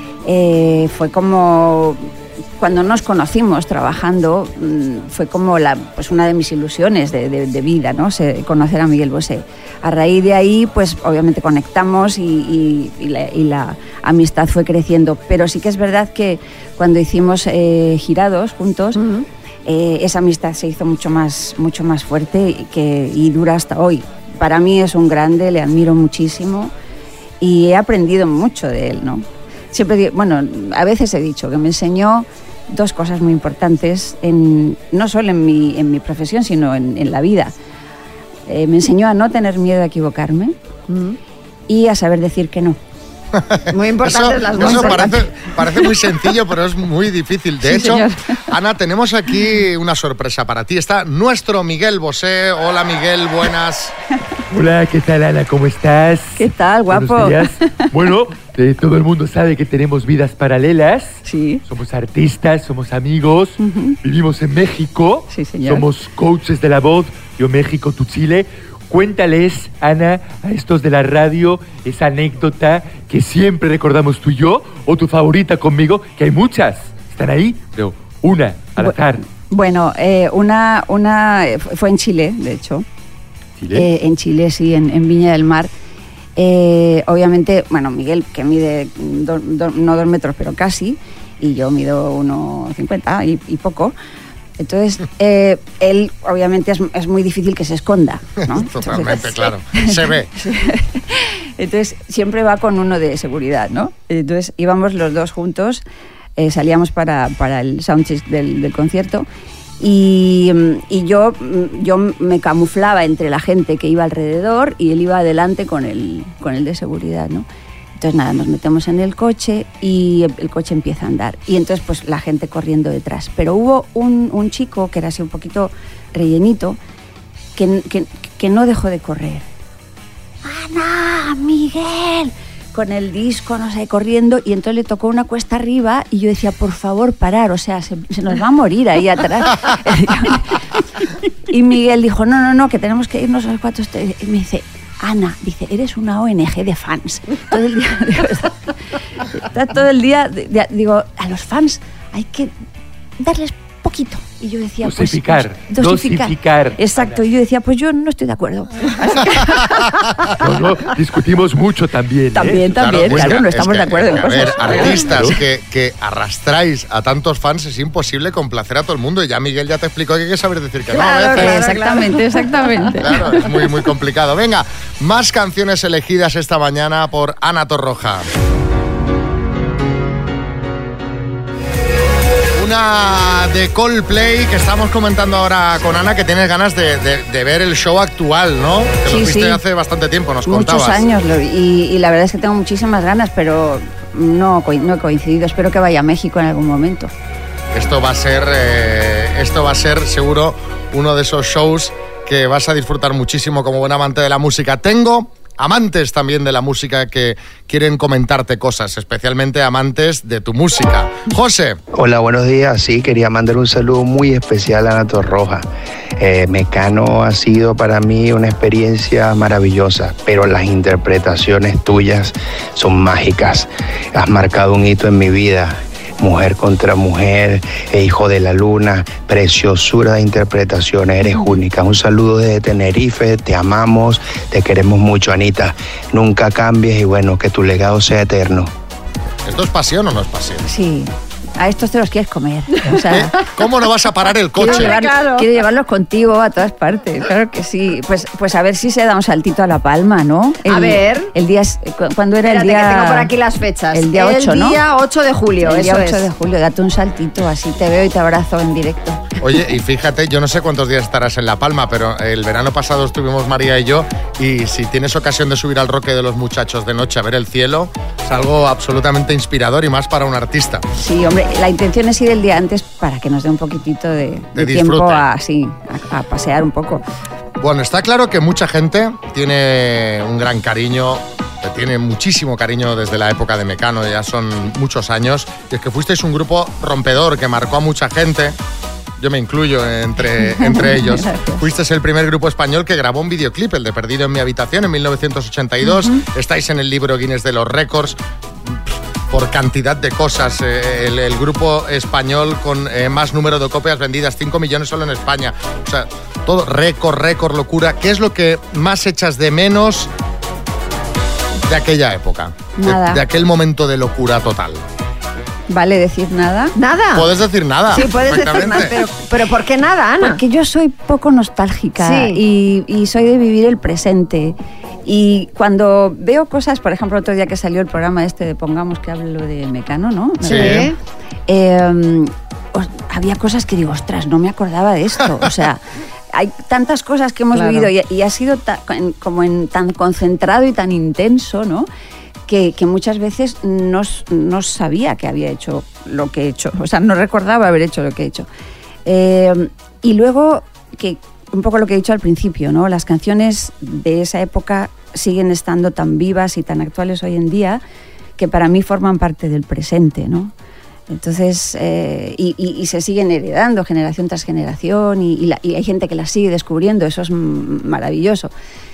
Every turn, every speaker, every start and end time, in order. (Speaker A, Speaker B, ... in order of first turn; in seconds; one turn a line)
Speaker A: 0.2-19.0
Speaker B: 18.9-19.2
Speaker A: 19.6-26.7
Speaker A: 27.4-37.5
Speaker A: 38.5-40.5
Speaker B: 40.9-41.2
Speaker A: 41.7-42.8
Speaker C: 43.3-53.9
Speaker B: 43.7-45.2
Speaker A: 44.5-45.2
Speaker A: 47.6-48.2
Speaker D: 54.5-79.2
Speaker A: 56.4-57.5
Speaker A: 61.2-61.6
Speaker A: 63.6-64.0
Speaker A: 65.3-65.8
Speaker A: 78.8-82.8
Speaker D: 83.6-83.9
Speaker A: 83.7-85.7
Speaker A: 86.4-93.9
Speaker A: 94.6-105.8
Speaker C: 98.5-100.3
Speaker A: 106.4-109.3
Speaker A: 109.8-117.5
Speaker A: 118.0-126.8
Speaker A: 127.6-129.4
Speaker A: 130.4-148.7
Speaker A: 149.3-152.5
Speaker A: 153.2-159.9
Speaker D: 154.8-157.1
Speaker D: 160.4-163.4
Speaker A: 162.3-165.3
Speaker C: 162.7-171.7
Speaker D: 164.6-165.3
Speaker B: 170.9-172.2
Speaker A: 171.0-173.4
Speaker C: 173.0-178.2
Speaker C: 182.6-191.1
Speaker A: 189.1-189.6
Speaker A: 190.5-197.1
Speaker C: 197.7-211.8
Speaker E: 211.9-215.7
Speaker E: 216.2-238.7
Speaker C: 239.4-240.7
Speaker A: 240.7-243.4
Speaker C: 243.1-244.9
Speaker B: 244.6-245.4
Speaker A: 244.6-253.3
Speaker B: 250.7-251.3
Speaker B: 252.4-256.2
Speaker A: 253.9-254.8
Speaker A: 255.6-259.2
Speaker C: 259.4-270.9
Speaker A: 271.0-277.0
Speaker C: 274.5-275.2
Speaker C: 277.6-288.6
Speaker C: 289.2-310.1
Speaker A: 290.4-291.6
Speaker A: 295.8-296.2
Speaker C: 311.7-314.8
Speaker A: 312.8-313.2
Speaker A: 315.7-316.7
Speaker B: 316.8-317.3
Speaker C: 317.1-318.9
Speaker B: 317.9-320.4
Speaker A: 320.2-324.5
Speaker B: 322.0-322.4
Speaker A: 325.1-330.9
Speaker B: 330.4-330.9
Speaker C: 330.5-330.8
Speaker A: 331.5-335.8
Speaker A: 336.3-341.9
Speaker B: 337.5-337.9
Speaker A: 342.5-348.5
Speaker A: 349.1-357.8
Speaker A: 358.4-360.5
Speaker A: 361.1-368.5